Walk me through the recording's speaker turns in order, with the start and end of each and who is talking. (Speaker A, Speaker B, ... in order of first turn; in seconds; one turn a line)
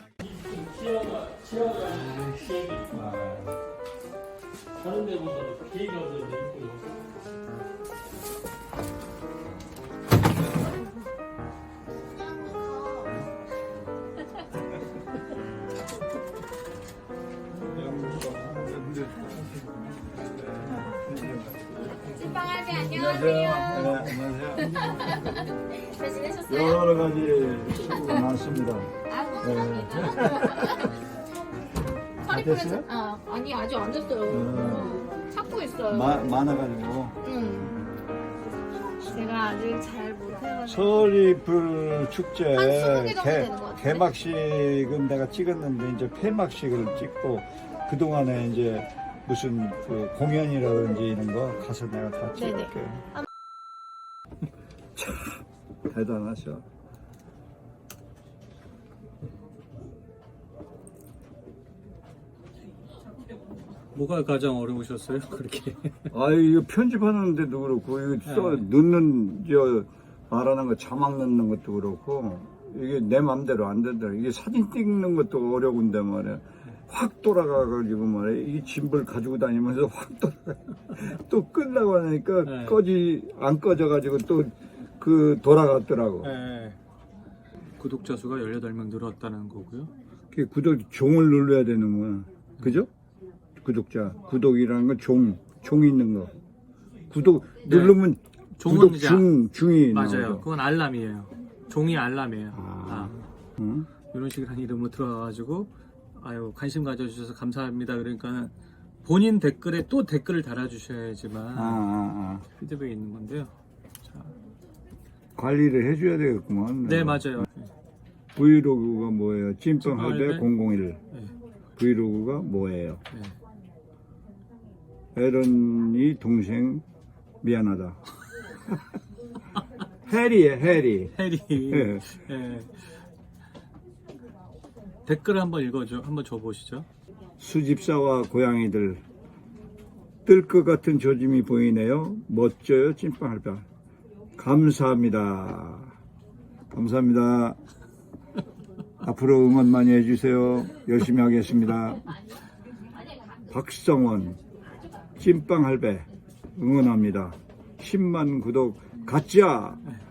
Speaker A: 0.2-3.0
Speaker B: 2.9-3.5
Speaker A: 4.8-7.0
Speaker C: 12.2-13.1
Speaker B: 17.6-19.4
Speaker B: 20.3-22.2
Speaker C: 22.0-24.1
Speaker B: 22.8-25.1
Speaker C: 24.7-26.9
Speaker B: 26.5-30.9
Speaker C: 29.1-30.9
Speaker B: 32.2-32.9
Speaker C: 32.2-36.2
Speaker B: 34.3-35.0
Speaker B: 35.9-37.2
Speaker C: 37.2-37.9
Speaker C: 39.0-40.9
Speaker B: 40.6-53.0
Speaker C: 42.5-44.0
Speaker C: 52.4-52.7
Speaker B: 55.0-56.6
Speaker A: 63.9-66.1
Speaker B: 66.1-86.3
Speaker A: 68.2-68.7
Speaker A: 82.4-82.8
Speaker A: 86.2-86.8
Speaker A: 87.8-89.9
Speaker B: 90.3-92.9
Speaker B: 93.6-96.3
Speaker B: 97.1-100.5
Speaker A: 97.6-98.0
Speaker A: 98.6-99.3
Speaker A: 99.9-103.2
Speaker B: 102.5-103.9
Speaker A: 104.1-111.8
Speaker B: 111.5-112.5
Speaker A: 112.5-114.3
Speaker B: 115.3-117.5
Speaker A: 116.8-117.7
Speaker B: 118.3-121.0
Speaker A: 119.8-120.5
Speaker B: 121.8-123.0
Speaker B: 125.1-126.8
Speaker B: 127.4-128.0
Speaker B: 130.1-131.1
Speaker A: 131.1-132.8
Speaker B: 131.7-132.1
Speaker A: 135.1-136.8
Speaker B: 137.4-139.0
Speaker B: 140.2-143.7
Speaker B: 144.3-145.9
Speaker B: 146.7-147.6
Speaker B: 149.0-152.1
Speaker B: 153.5-154.4
Speaker B: 155.2-159.8